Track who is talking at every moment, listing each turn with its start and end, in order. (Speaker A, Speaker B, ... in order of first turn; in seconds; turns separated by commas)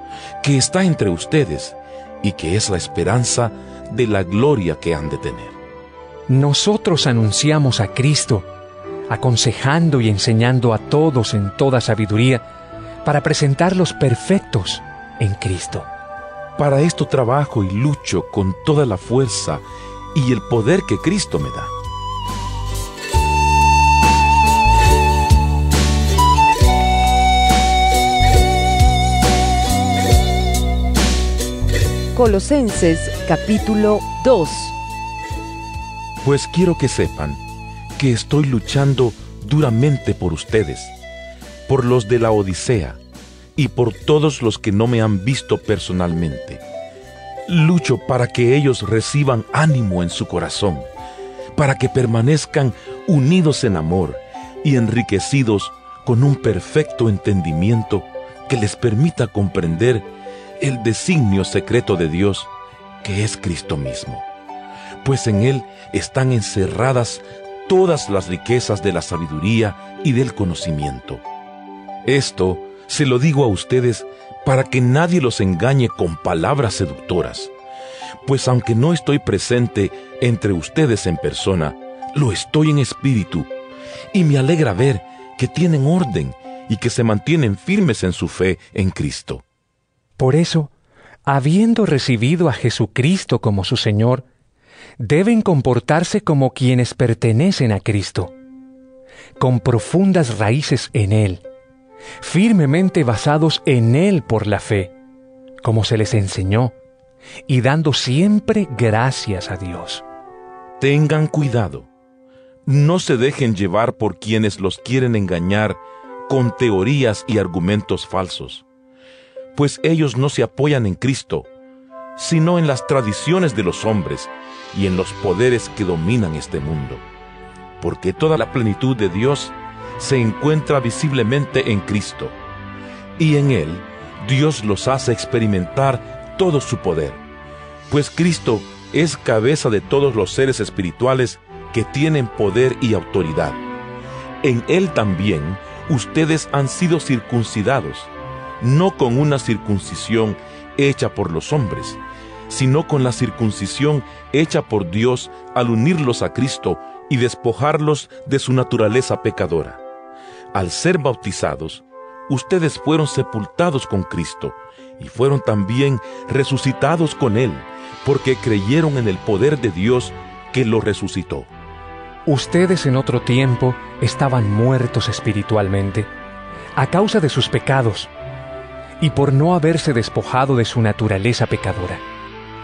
Speaker A: 0.4-5.6, Speaker B: 6.3-8.5, Speaker B: 9.1-12.4, Speaker B: 13.0-15.9, Speaker A: 16.6-21.7, Speaker C: 32.1-34.8, Speaker A: 36.2-37.4, Speaker A: 38.0-41.0, Speaker A: 41.7-43.0, Speaker A: 43.6-46.6, Speaker A: 47.5-50.9, Speaker A: 51.5-60.1, Speaker A: 60.6-62.5, Speaker A: 63.0-64.3, Speaker A: 65.0-71.2, Speaker A: 72.0-77.5, Speaker A: 78.3-83.5, Speaker A: 84.1-89.4, Speaker B: 90.2-90.7, Speaker B: 91.2-94.3, Speaker B: 95.0-98.3, Speaker B: 99.4-101.4, Speaker B: 102.2-104.9, Speaker B: 105.6-106.8, Speaker B: 107.5-110.0, Speaker A: 110.8-111.9, Speaker A: 112.7-118.7, Speaker A: 119.5-121.5, Speaker A: 122.2-127.0, Speaker A: 127.8-132.4, Speaker A: 133.2-137.2, Speaker A: 137.9-143.6, Speaker A: 144.4-159.8, Speaker A: 160.5-171.5, Speaker B: 172.3-176.1, Speaker B: 176.8-178.1, Speaker B: 179.0-182.0